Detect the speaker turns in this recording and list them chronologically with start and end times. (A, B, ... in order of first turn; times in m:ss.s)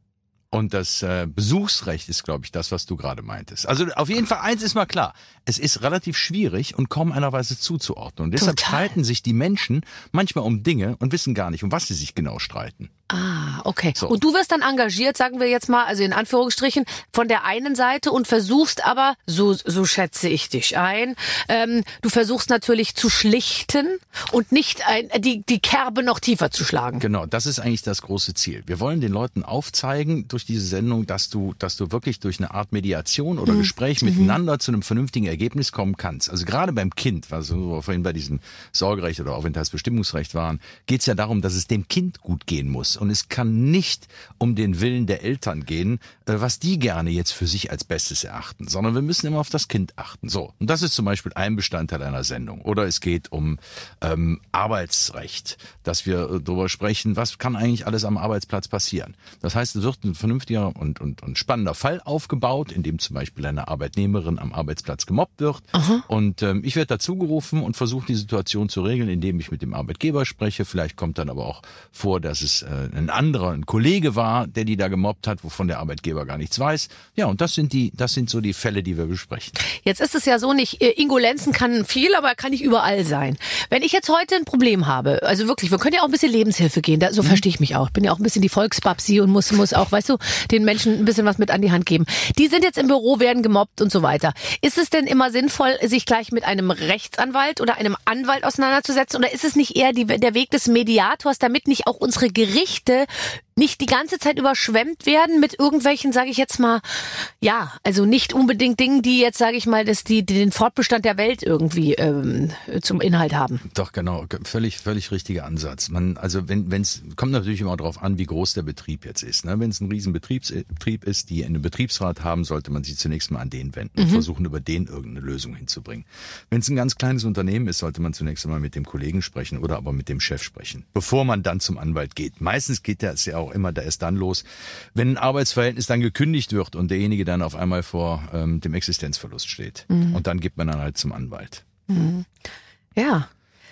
0:00.5-0:12.9 A
0:08.4-0:08.9 B
0:13.1-0:27.0 B
0:27.0-1:19.6 A
0:33.5-0:34.4 B
1:05.7-1:06.0 B
1:19.8-1:53.6 B
1:53.7-2:21.6 A
2:04.0-2:04.2 B
2:19.9-2:20.2 B
2:21.9-2:22.3 B
2:23.0-2:23.3 B